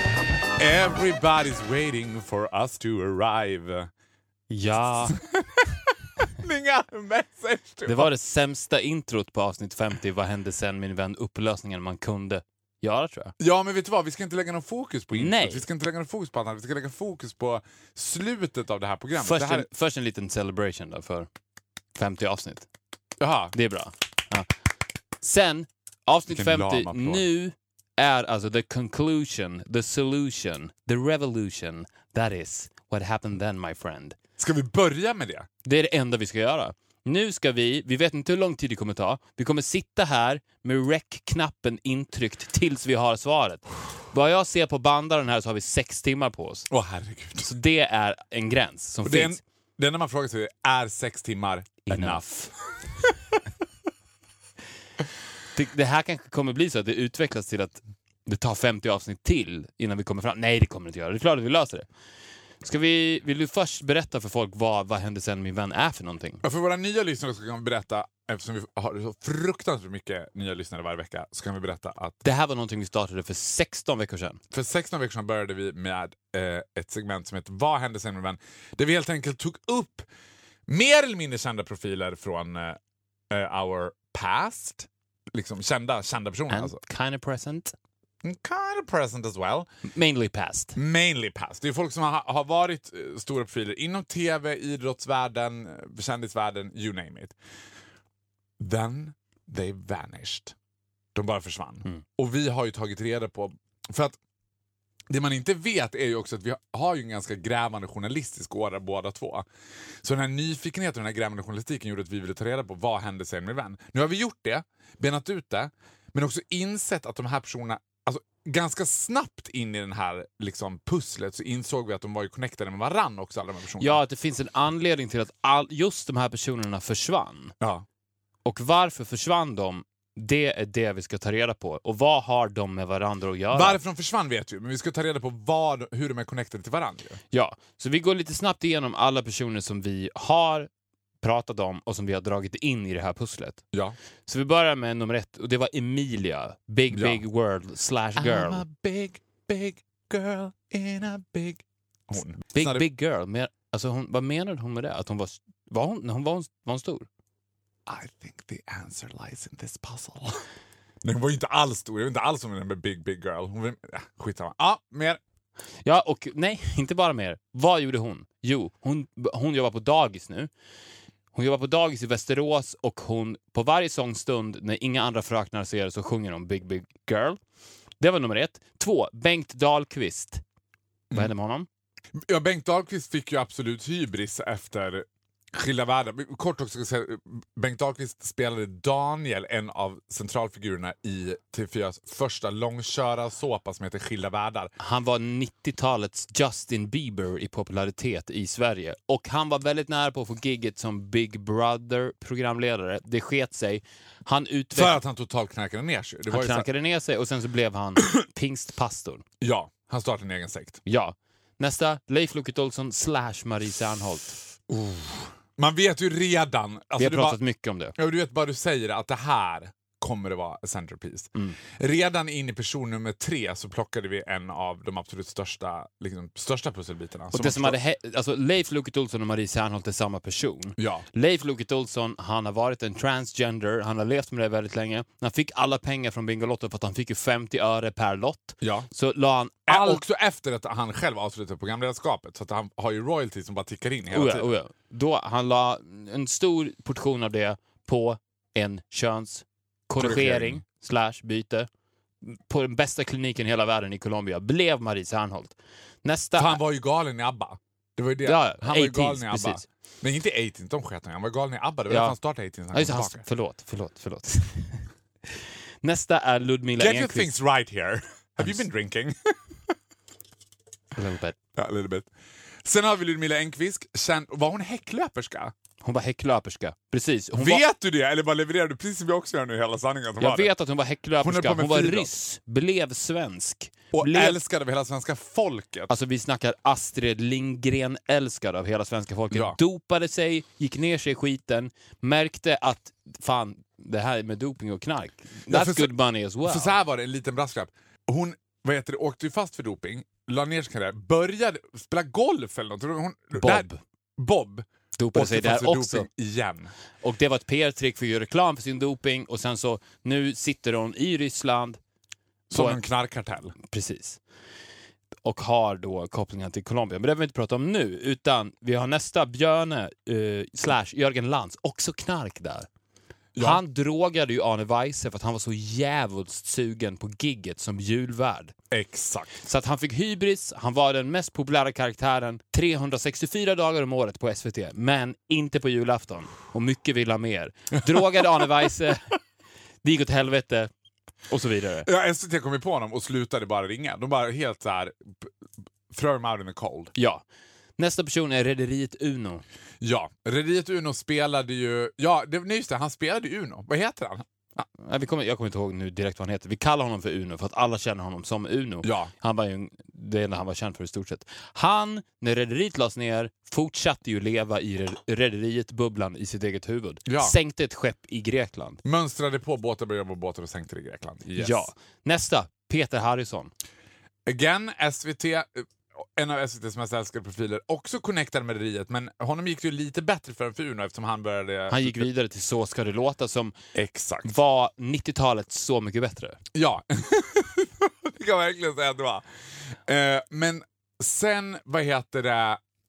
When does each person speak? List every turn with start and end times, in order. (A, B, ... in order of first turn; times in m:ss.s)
0:00.6-0:03.9 A
0:04.5-0:05.2 B
0:05.1-0:08.1 A
0:07.9-0:13.3 B
0:13.4-0:19.7 A
0:15.1-0:15.6 B
0:19.2-0:21.3 B
0:22.0-0:22.7 B
0:23.2-0:23.5 A
0:23.5-0:24.5 B
0:25.2-0:34.1 B
0:26.3-0:27.2 A
0:34.4-0:35.5 A
0:35.6-0:46.7 B
0:46.7-0:47.4 A
0:47.4-0:49.4 B
0:49.0-0:52.2 A
0:51.8-0:52.5 B
0:55.5-1:01.9 B
1:02.6-1:06.4 B
1:06.4-1:12.2 A
1:12.2-1:14.4 B
1:14.5-1:20.0 A
1:20.7-1:22.8 A
1:23.3-1:26.8 A
1:26.5-1:27.7 B
1:28.2-1:29.7 A
1:29.8-1:30.8 B
1:30.8-1:37.3 A
1:38.6-1:40.5 A
1:41.1-1:44.2 A
1:45.1-1:49.4 A
1:50.0-2:04.0 A
2:03.8-2:07.5 B
2:07.6-2:07.8 A
2:08.4-2:13.8 B
2:13.5-2:17.2 A
2:17.3-2:20.7 B
2:21.2-2:23.6 B
2:24.3-2:28.6 B
2:26.9-2:27.2 A
2:28.2-2:32.8 A
2:32.5-2:37.1 B
2:37.9-2:40.4 A
2:41.0-2:45.2 A
2:45.8-2:50.5 B
2:51.3-2:57.4 B
2:58.0-3:00.4 B
3:01.1-3:01.7 B
3:02.1-3:14.7 A
3:14.8-3:25.0 B
3:24.7-3:26.7 A
3:26.3-3:29.2 B
3:29.4-3:30.8 A
3:30.8-3:34.4 B
3:34.7-3:37.4 A
3:37.0-3:38.0 B
3:38.0-3:47.8 A
3:47.3-4:00.0 B
3:50.8-3:51.0 A
3:58.6-3:58.9 A
3:59.7-4:04.5 A
4:04.1-4:11.7 B
4:10.0-4:10.6 A
4:12.2-4:16.6 B
4:16.4-4:23.2 A
4:18.2-4:19.6 B
4:21.9-4:22.2 B
4:22.7-4:24.8 B
4:25.8-4:27.3 B
4:26.8-4:29.5 A
4:31.0-4:31.4 B
4:31.6-4:32.1 A
4:32.6-4:35.5 A
4:35.8-4:37.6 B
4:37.3-4:40.5 A
4:40.2-4:44.4 B
4:41.2-4:42.1 A
4:43.9-4:45.9 A
4:45.9-4:56.7 B
4:49.3-4:49.6 A
4:55.5-4:55.9 A
4:56.4-5:06.7 A
5:03.4-5:03.8 B
5:05.0-5:06.1 B
5:07.0-5:11.8 B
5:12.5-5:13.5 A
5:12.5-5:12.8 B
5:13.6-5:14.2 B
5:15.2-5:22.7 B
5:23.3-5:23.6 A
5:23.4-5:28.5 B
5:28.7-5:29.4 A
5:29.4-5:39.1 B
5:37.9-5:38.4 A
5:39.8-5:40.7 B
5:41.3-5:41.9 B
5:41.8-5:45.3 A
5:45.9-5:46.9 A
5:46.9-5:47.2 B
5:47.8-5:49.4 B
5:49.8-5:54.6 A
5:54.8-6:08.8 B
5:58.8-5:59.1 A
6:07.0-6:07.3 A
6:08.8-6:11.7 A
6:11.4-6:13.5 B
6:14.2-6:22.0 A
6:21.7-6:23.5 B
6:23.7-6:24.3 A
6:24.2-6:26.4 B
6:26.5-6:29.2 A
6:29.8-6:32.6 A